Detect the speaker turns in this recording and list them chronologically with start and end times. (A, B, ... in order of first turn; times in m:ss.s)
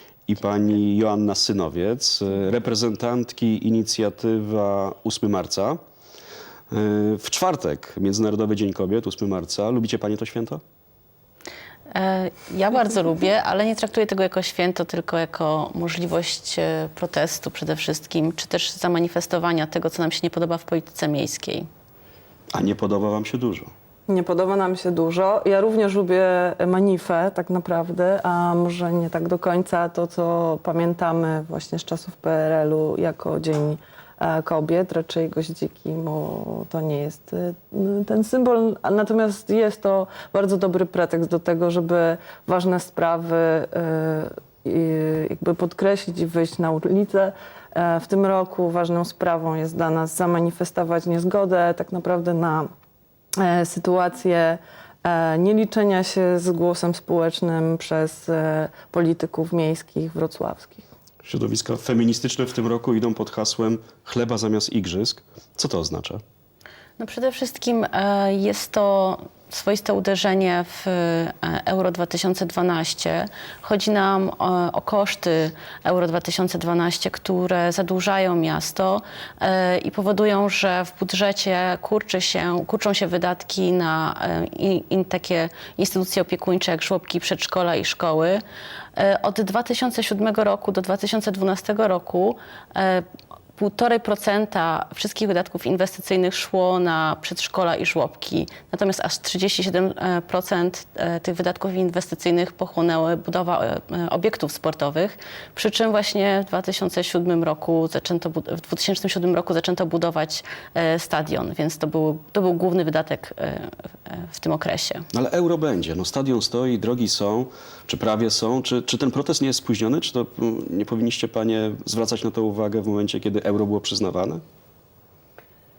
0:00.3-0:05.8 A
0:06.7-0:10.6 A
0:11.9-0:21.7 B
0:22.5-0:23.7 A
0:24.1-0:52.7 C
0:53.4-1:00.9 C
1:01.2-1:06.2 A
1:07.0-1:28.4 B
1:29.0-1:33.0 B
1:33.6-1:55.0 B
1:55.1-2:04.4 A